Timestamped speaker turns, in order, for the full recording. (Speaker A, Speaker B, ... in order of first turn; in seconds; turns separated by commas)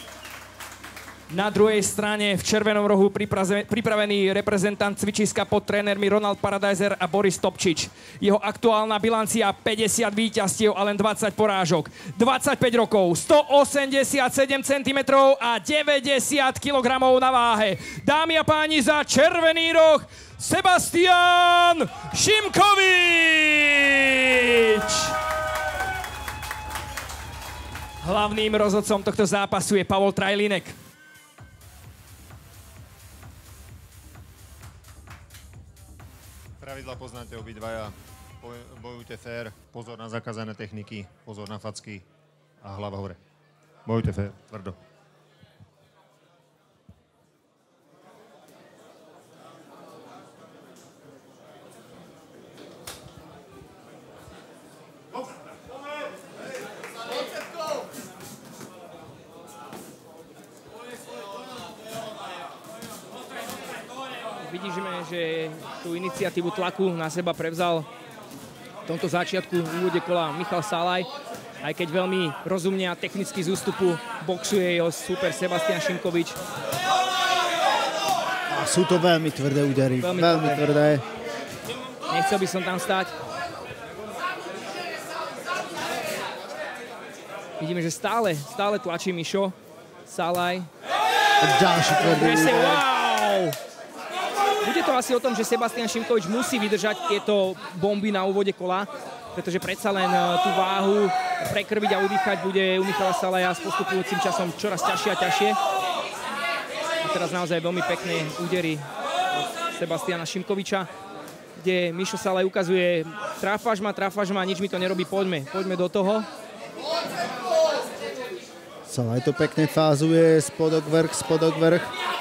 Speaker A: 1.3-25.1, Speaker A: 28.0-30.8, Speaker B: 36.6-42.0, Speaker B: 42.6-43.2, Speaker B: 43.9-44.8, Speaker A: 64.4-67.9, Speaker A: 68.9-71.1, Speaker A: 71.6-76.4, Speaker C: 78.5-81.0, Speaker A: 80.0-80.7, Speaker A: 82.1-83.1, Speaker A: 87.6-89.5, Speaker A: 90.1-90.7, Speaker C: 91.4-92.8, Speaker A: 91.9-93.5, Speaker A: 94.6-105.6, Speaker A: 107.0-110.9, Speaker A: 111.5-116.3, Speaker C: 118.9-121.9